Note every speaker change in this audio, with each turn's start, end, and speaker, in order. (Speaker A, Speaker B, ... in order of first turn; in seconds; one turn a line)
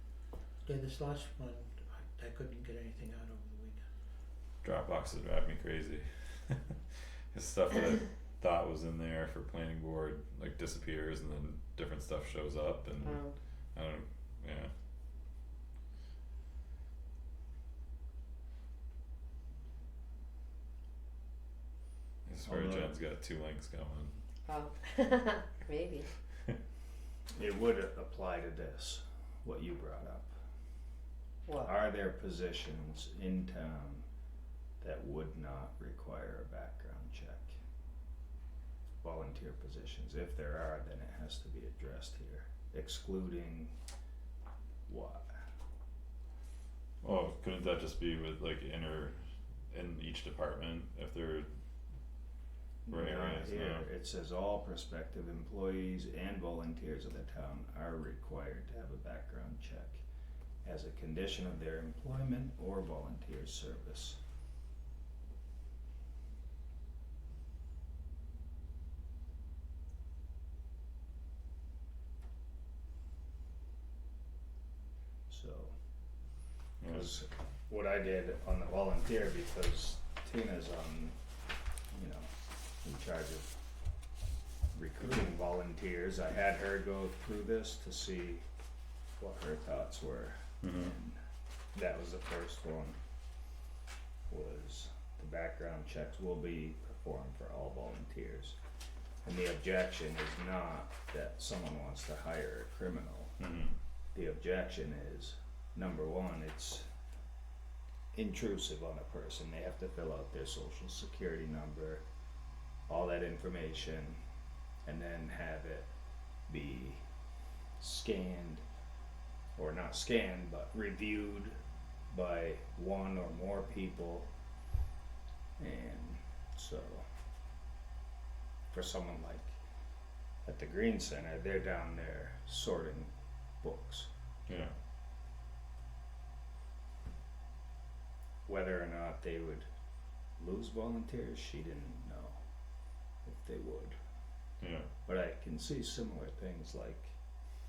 Speaker A: 0.6-3.9
Speaker B: 4.6-6.6
Speaker B: 7.3-13.2
Speaker C: 13.0-13.3
Speaker B: 13.8-14.7
Speaker B: 22.3-24.1
Speaker D: 22.4-22.9
Speaker C: 24.5-26.1
Speaker D: 27.3-30.3
Speaker C: 31.4-31.7
Speaker D: 31.6-34.1
Speaker D: 34.8-37.6
Speaker D: 39.0-43.8
Speaker D: 44.9-45.4
Speaker B: 47.0-49.2
Speaker B: 49.7-51.5
Speaker D: 52.9-60.0
Speaker B: 52.9-53.9
Speaker D: 60.6-64.2
Speaker D: 75.3-76.3
Speaker B: 76.8-77.1
Speaker D: 76.9-81.2
Speaker D: 81.9-83.6
Speaker D: 84.7-88.4
Speaker D: 89.2-91.2
Speaker B: 90.6-90.9
Speaker D: 91.7-93.0
Speaker D: 94.3-98.6
Speaker D: 99.2-103.4
Speaker B: 103.4-103.8
Speaker D: 104.1-106.9
Speaker D: 108.1-112.0
Speaker D: 112.9-114.2
Speaker D: 114.8-115.9
Speaker D: 116.5-117.1
Speaker D: 117.8-118.6
Speaker D: 119.6-124.3
Speaker D: 125.6-127.1
Speaker D: 128.7-129.6
Speaker D: 130.4-134.1
Speaker B: 134.5-134.8
Speaker D: 138.5-139.7
Speaker D: 140.4-142.4
Speaker D: 143.2-144.0
Speaker B: 144.6-144.9
Speaker D: 145.1-147.2